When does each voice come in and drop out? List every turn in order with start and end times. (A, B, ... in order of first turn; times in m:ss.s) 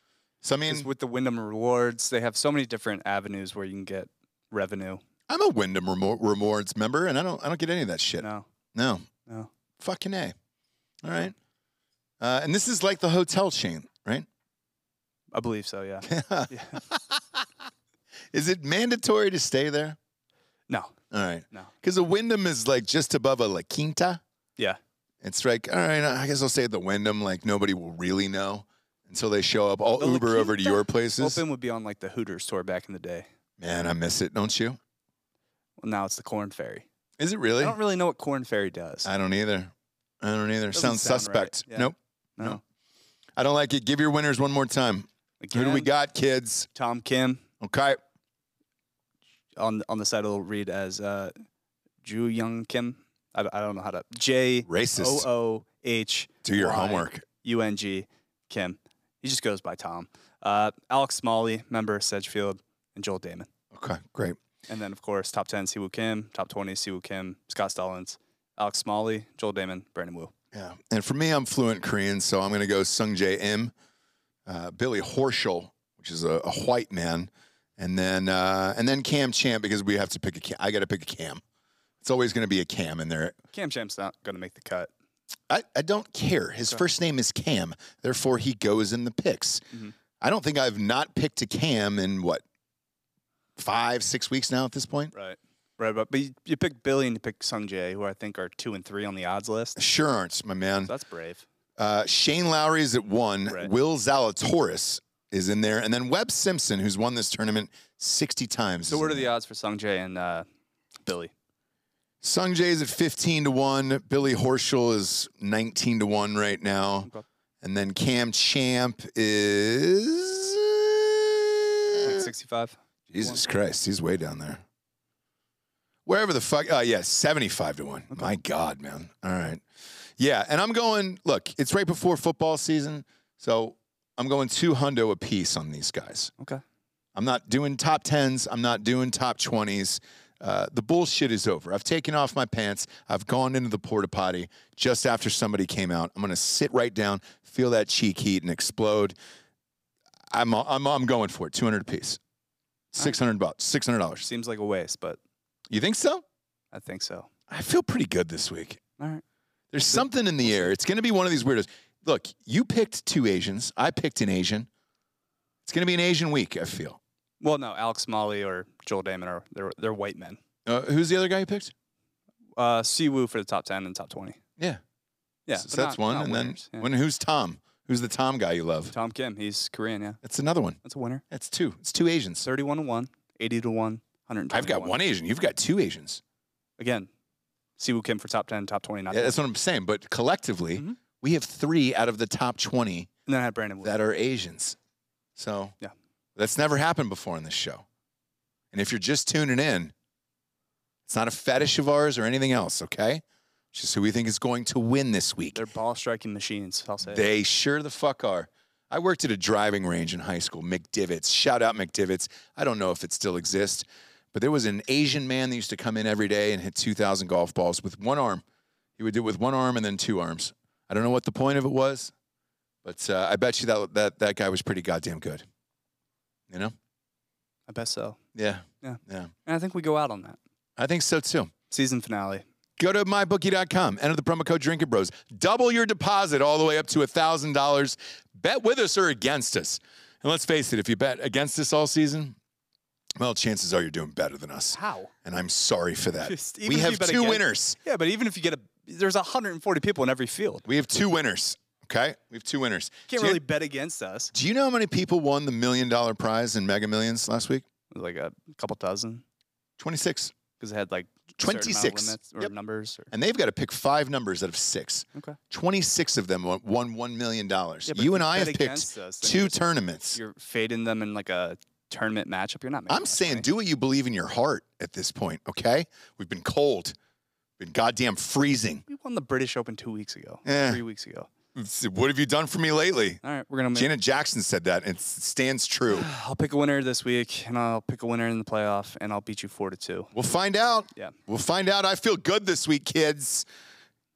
0:00.4-0:00.9 A
0:00.6-0:05.0 B
0:05.3-0:09.0 A
0:08.2-0:08.5 B
0:09.8-0:10.3 A
0:11.0-0:11.3 A
0:12.2-0:14.2 A
0:15.3-0:16.8 B
0:16.0-0:17.4 A
0:18.3-0:20.0 A
0:20.7-0:20.9 B
0:21.1-0:24.2 A
0:25.2-0:31.4 A
0:29.9-0:33.2 B
0:33.6-0:34.8 A
0:35.8-0:36.8 B
0:37.2-0:37.8 A
0:37.6-0:39.1 B
0:39.0-0:42.6 A
0:40.7-0:42.6 B
0:43.4-0:46.7 A
0:45.4-0:45.9 B
0:46.7-0:47.4 B
0:47.6-0:48.0 A
0:49.6-0:51.3 B
0:52.0-1:03.5 B
0:54.6-0:55.3 A
0:56.4-0:57.2 A
1:03.7-1:04.4 A
1:04.7-1:10.3 B
1:10.5-1:13.7 A
1:14.4-1:21.4 A
1:22.0-1:23.4 A
1:23.5-1:24.9 B
1:25.5-1:29.6 A
1:30.2-1:32.4 A
1:33.6-1:35.1 A
1:35.1-1:39.8 B
1:39.8-1:40.9 A
1:40.8-1:41.4 B
1:41.8-1:49.3 A
1:48.9-1:50.4 B
1:51.0-1:51.3 B
1:52.2-1:57.1 A
1:57.6-2:02.3 A
2:02.0-2:03.4 B
2:03.1-2:04.6 A
2:06.0-2:09.6 A
2:10.2-2:16.3 A
2:17.1-2:29.2 A
2:30.3-2:32.2 A
2:32.9-2:33.2 B
2:33.0-2:34.3 A
2:34.2-2:35.2 B
2:35.7-2:36.2 A
2:36.7-2:37.3 B
2:37.5-2:38.8 A
2:39.0-2:39.2 B
2:39.7-2:44.7 A
2:39.9-2:40.7 B
2:45.6-2:47.0 A
2:47.4-2:50.4 B
2:50.6-2:51.7 A
2:52.6-2:54.4 B
2:55.5-2:56.9 B
2:55.5-2:58.9 A
2:58.9-3:00.2 B
3:00.2-3:00.8 A
3:00.8-3:01.2 B
3:01.3-3:02.4 A
3:02.4-3:05.0 B
3:04.5-3:06.2 A
3:06.8-3:07.1 B
3:07.8-3:09.4 B
3:09.1-3:13.1 A
3:13.3-3:14.0 B
3:13.8-3:14.8 A
3:15.4-3:15.7 A
3:16.4-3:17.8 A
3:18.7-3:19.9 A
3:21.1-3:25.6 A
3:25.5-3:27.3 B
3:27.0-3:38.4 A
3:39.0-3:42.1 A
3:42.8-3:45.4 A
3:47.7-3:48.2 B
3:48.3-3:49.3 A
3:48.8-3:50.4 B
3:50.8-3:51.5 A
3:51.7-3:52.4 B
3:52.8-4:02.4 A
4:03.2-4:07.8 A
4:04.7-4:05.1 B
4:06.2-4:10.6 B
4:10.6-4:13.4 A
4:13.1-4:14.3 B
4:14.3-4:17.6 A
4:17.9-4:19.2 B
4:19.8-4:20.3 A
4:20.6-4:23.1 B
4:21.4-4:22.5 A
4:23.1-4:30.2 A
4:27.9-4:29.6 B
4:30.1-4:33.5 B
4:32.9-4:36.9 A
4:37.6-4:38.8 A
4:38.9-4:41.3 B
4:40.4-4:40.8 A
4:41.5-4:43.2 A
4:43.2-4:43.9 B
4:43.7-4:46.1 A
4:45.9-4:50.1 B
4:50.1-4:53.4 A